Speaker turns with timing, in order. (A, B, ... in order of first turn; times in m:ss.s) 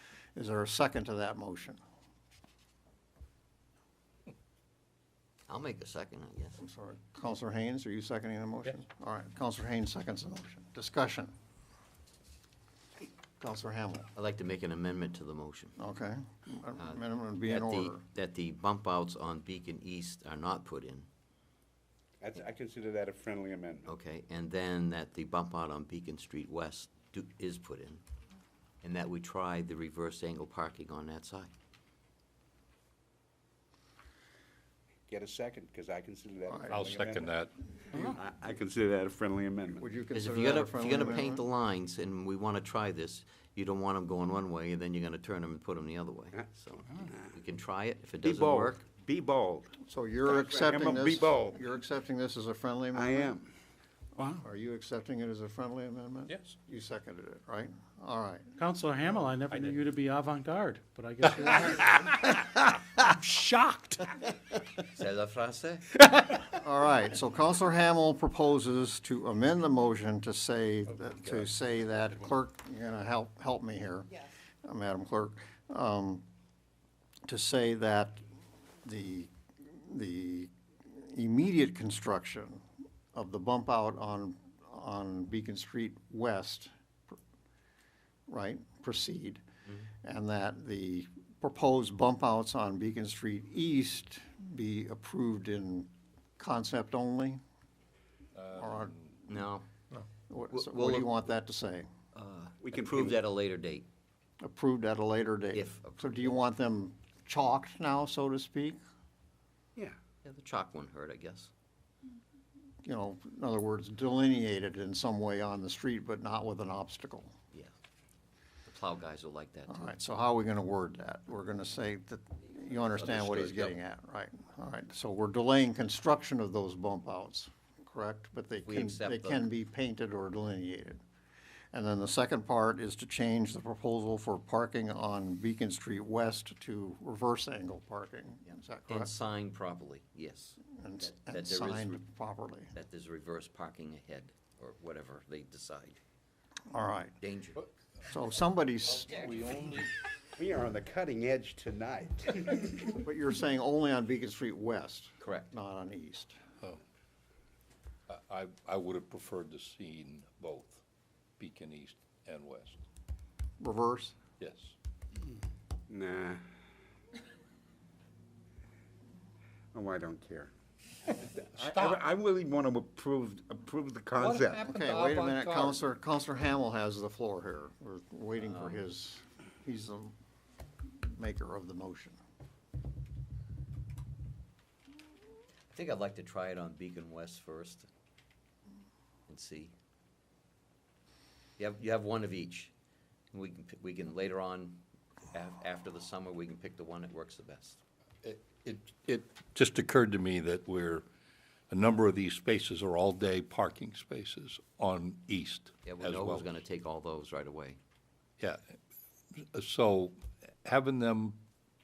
0:00.3-0:01.8 A
0:05.5-0:06.6 B
0:06.6-0:11.3 A
0:13.4-0:14.1 A
0:14.1-0:15.8 B
0:15.8-0:18.0 A
0:16.8-0:21.1 B
0:22.2-0:23.9 C
0:23.8-0:28.0 B
0:28.8-0:31.5 B
0:35.1-0:37.3 C
0:36.7-0:37.5 D
0:37.9-0:38.2 E
0:38.0-0:39.8 C
0:39.8-0:41.4 A
0:40.1-0:48.8 B
0:48.2-0:49.7 C
0:49.8-0:53.3 A
0:50.3-0:51.6 C
0:52.9-0:53.5 C
0:54.2-0:54.4 C
0:54.4-0:58.5 A
0:58.6-1:04.1 E
1:04.9-1:05.9 B
1:06.5-1:16.2 A
1:17.3-1:18.2 A
1:18.8-1:22.6 A
1:23.1-1:27.2 A
1:28.3-1:29.4 A
1:30.0-1:37.4 A
1:38.3-1:39.1 D
1:38.6-1:38.9 A
1:39.3-1:39.7 B
1:40.3-1:41.9 A
1:40.5-1:41.1 B
1:42.1-1:43.9 B
1:42.6-1:43.2 C
1:44.4-1:48.8 A
1:45.5-1:46.3 B
1:50.2-1:51.5 B
1:52.8-1:57.3 A
1:58.6-1:59.9 B
1:59.7-2:11.0 A
2:03.0-2:03.7 C
2:08.6-2:09.5 B
2:11.7-2:19.1 A
2:18.9-2:22.0 B
2:20.7-2:22.7 A
2:22.7-2:26.0 B
2:26.7-2:27.2 A
2:27.2-2:27.6 B
2:28.1-2:29.8 A
2:28.9-2:29.9 D
2:30.4-2:33.0 C
2:33.0-2:36.4 A
2:35.2-2:35.5 B
2:38.1-2:40.8 D
2:41.4-2:42.8 D
2:43.6-2:44.1 A
2:44.4-2:44.7 D
2:45.9-2:46.4 C
2:49.7-2:50.5 C
2:51.1-2:54.6 C
2:51.6-2:52.0 D
2:54.2-2:55.8 D
2:54.6-3:00.1 A
2:58.4-2:58.8 B
3:01.0-3:02.2 A
3:05.7-3:07.9 B
3:09.3-3:09.7 B
3:11.6-3:12.7 B
3:13.3-3:17.8 B
3:18.2-3:21.0 D
3:21.7-3:26.4 D
3:25.8-3:27.8 B
3:28.4-3:28.7 D
3:29.5-3:31.4 D